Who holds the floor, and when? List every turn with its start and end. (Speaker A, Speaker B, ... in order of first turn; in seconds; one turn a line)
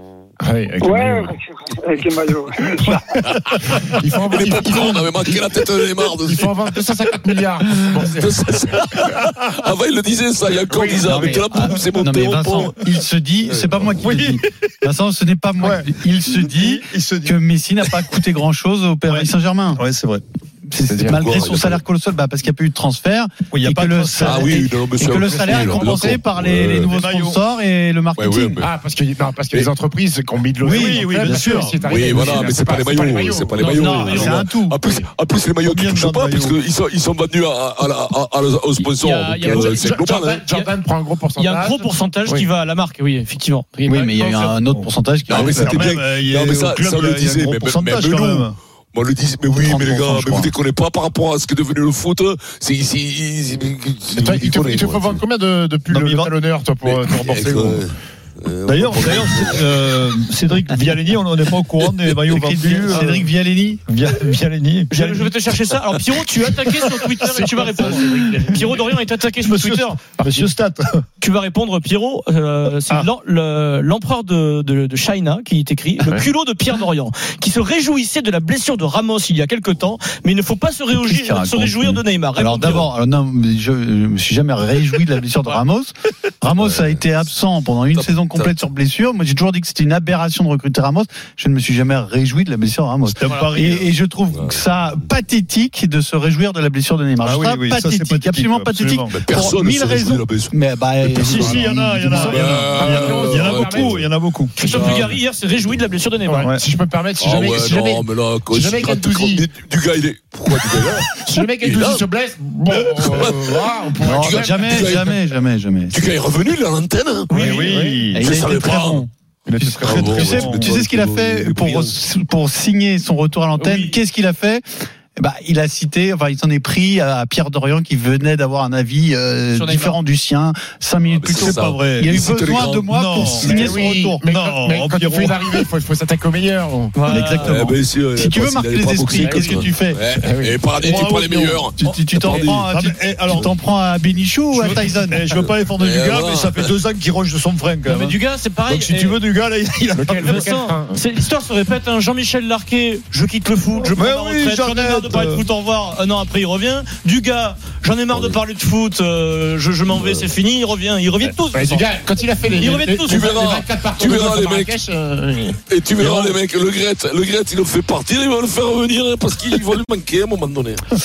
Speaker A: 0.4-1.3
Speaker B: 0.8-3.2
Speaker C: 3.2-3.5
Speaker A: 3.7-9.4
Speaker C: 4.3-6.6
Speaker C: 8.0-12.8
Speaker A: 10.7-11.3
Speaker D: 10.9-19.8
Speaker E: 11.0-11.6
Speaker C: 13.4-13.9
Speaker E: 14.0-14.4
Speaker E: 15.6-17.9
Speaker E: 19.1-20.2
Speaker D: 20.7-28.6
Speaker C: 20.8-21.8
Speaker E: 23.5-24.6
Speaker C: 24.2-26.9
Speaker A: 25.3-26.2
Speaker E: 26.9-27.4
Speaker C: 28.2-28.7
Speaker A: 28.6-35.1
Speaker E: 30.6-32.3
Speaker D: 30.6-32.2
Speaker C: 31.8-40.4
Speaker F: 33.5-34.4
Speaker D: 33.6-34.8
Speaker E: 35.6-36.6
Speaker F: 38.8-40.8
Speaker A: 39.4-42.5
Speaker F: 41.3-44.5
Speaker D: 43.9-45.8
Speaker E: 44.6-48.5
Speaker C: 45.3-55.2
Speaker D: 49.6-50.5
Speaker A: 54.1-57.8
Speaker E: 55.9-56.3
Speaker C: 56.8-60.0
Speaker E: 58.6-63.3
Speaker D: 62.3-63.8
Speaker E: 63.9-65.3
Speaker F: 64.9-70.0
Speaker E: 67.0-68.7
Speaker A: 67.3-68.8
Speaker E: 69.4-71.0
Speaker F: 71.2-82.9
Speaker D: 80.9-102.5
Speaker C: 86.6-87.3
Speaker C: 87.9-88.6
Speaker E: 93.0-93.9
Speaker E: 97.2-99.1
Speaker C: 99.1-101.5
Speaker E: 101.2-104.6
Speaker A: 101.3-101.6
Speaker C: 102.2-105.2
Speaker A: 102.4-104.0
Speaker F: 104.6-106.5
Speaker A: 106.3-109.5
Speaker E: 106.4-106.6
Speaker C: 107.2-112.0
Speaker A: 111.1-114.7
Speaker C: 112.7-115.2
Speaker D: 114.0-116.0
Speaker C: 115.9-117.4
Speaker F: 117.3-117.7
Speaker E: 117.3-118.3
Speaker A: 117.6-118.0
Speaker D: 118.1-124.6
Speaker C: 118.2-119.0
Speaker A: 119.5-120.5
Speaker E: 119.8-120.7
Speaker C: 119.8-122.0
Speaker F: 123.6-124.0
Speaker D: 125.1-134.2
Speaker F: 129.5-130.0
Speaker C: 131.0-133.4
Speaker E: 131.3-135.7
Speaker A: 133.4-137.0
Speaker F: 136.9-137.5
Speaker D: 137.0-140.0
Speaker C: 137.4-142.7
Speaker A: 139.2-139.6
Speaker A: 140.1-141.1
Speaker E: 140.8-141.7
Speaker D: 141.8-145.2
Speaker E: 142.2-143.5
Speaker E: 144.5-150.5
Speaker C: 145.3-146.7
Speaker F: 147.8-149.2
Speaker A: 149.9-151.0
Speaker F: 150.2-163.3
Speaker E: 153.8-155.4
Speaker C: 158.1-158.4
Speaker C: 159.9-160.3
Speaker A: 161.2-166.3
Speaker C: 163.1-164.7
Speaker C: 165.7-170.9